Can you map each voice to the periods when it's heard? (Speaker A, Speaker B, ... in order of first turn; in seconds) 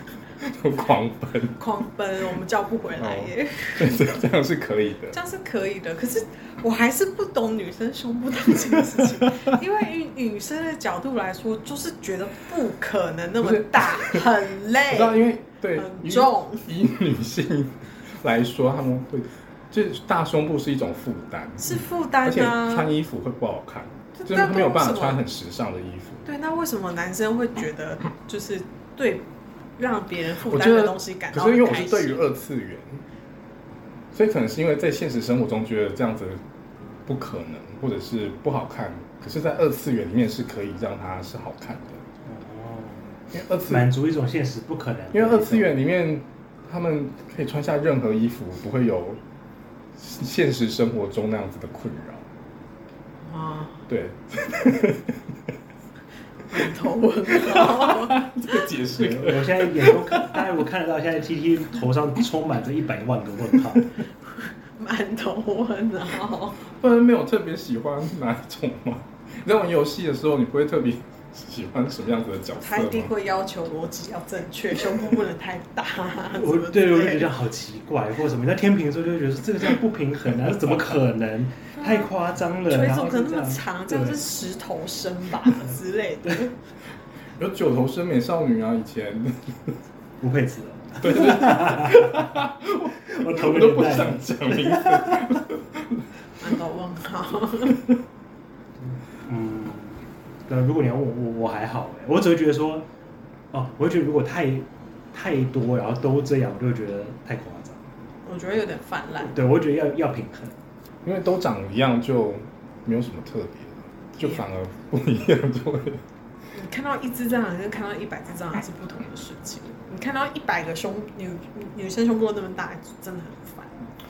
Speaker A: 0.4-1.6, 3.0-5.2, 9.1-9.4, 13.4-14.3, 14.8-26.2, 30.5-33.0, 34.1-36.4, 37.1-42.0, 43.3-43.9, 45.1-49.2, 50.0-52.2, 53.9-55.2, 57.3-60.5, 66.6-73.1, 87.4-89.8, 91.0-96.0, 111.0-116.0
Speaker B: 1.6-4.2, 5.1-15.2, 15.8-16.7, 21.6-22.9, 24.1-25.2, 26.2-29.2, 29.8-32.2, 53.2-53.8, 56.5-58.3, 64.8-66.6, 72.6-77.3, 81.8-82.1, 82.7-86.5, 96.4-97.8, 108.3-109.3, 116.5-123.7
Speaker C: 42.3-43.1, 43.7-45.7, 58.9-63.9, 76.3-84.2, 90.2-92.5, 93.0-95.4, 99.1-102.9, 103.5-107.8, 109.2-110.5